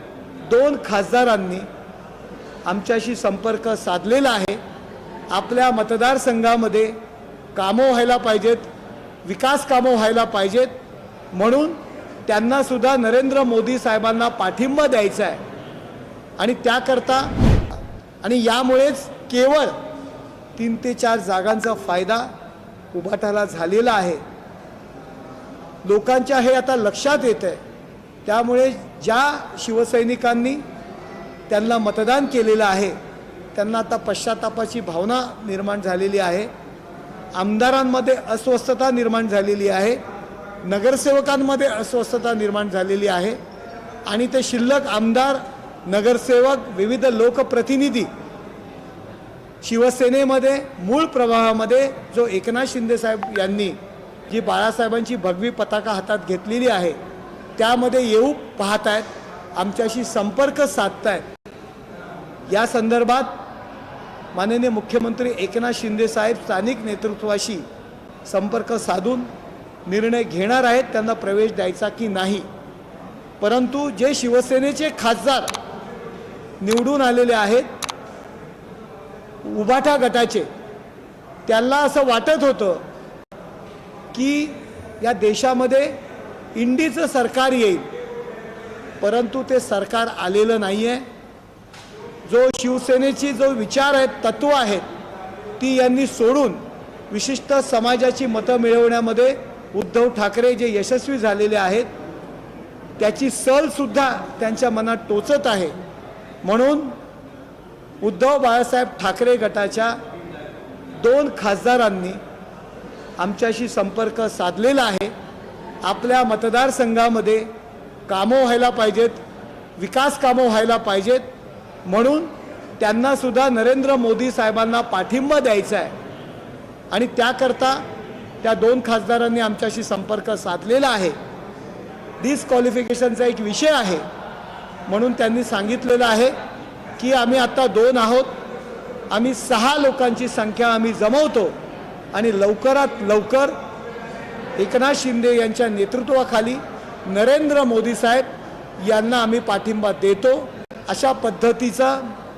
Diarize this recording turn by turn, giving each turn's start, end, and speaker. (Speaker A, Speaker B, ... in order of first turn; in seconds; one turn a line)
Speaker A: 0.4-1.6
Speaker A: 2.6-4.6
Speaker A: 5.3-7.0
Speaker A: 7.5-8.7
Speaker A: 9.2-10.7
Speaker A: 11.3-15.4
Speaker A: 16.4-17.3
Speaker A: 18.2-19.8
Speaker A: 20.6-22.3
Speaker A: 22.9-24.2
Speaker A: 25.8-27.6
Speaker A: 28.2-30.6
Speaker A: 31.5-32.9
Speaker A: 33.5-36.5
Speaker A: 37.3-40.0
Speaker A: 40.6-43.4
Speaker A: 44.0-48.1
Speaker A: 49.6-53.8
Speaker A: 54.3-57.0
Speaker A: 57.6-61.2
Speaker A: 62.5-63.4
Speaker A: 64.3-67.6
Speaker A: 68.2-69.3
Speaker A: 69.8-72.4
Speaker A: 73.4-75.5
Speaker A: 76.6-77.7
Speaker A: 79.4-80.5
Speaker A: 81.5-82.8
Speaker A: 84.1-86.0
Speaker A: 86.5-87.9
Speaker A: 89.0-91.0
Speaker A: 92.2-94.8
Speaker A: 95.6-101.9
Speaker A: 103.0-105.7
Speaker A: 106.4-106.9
Speaker A: 108.0-110.0
Speaker A: 111.0-112.2
Speaker A: 113.2-115.1
Speaker A: 115.8-117.5
Speaker A: 118.1-119.2
Speaker A: 119.8-121.2
Speaker A: 121.8-125.9
Speaker A: 126.9-127.8
Speaker A: 128.4-131.1
Speaker A: 132.2-134.0
Speaker A: 134.9-136.3
Speaker A: 137.0-138.3
Speaker A: 139.1-141.5
Speaker A: 142.1-143.6
Speaker A: 144.6-148.2
Speaker A: 148.8-152.1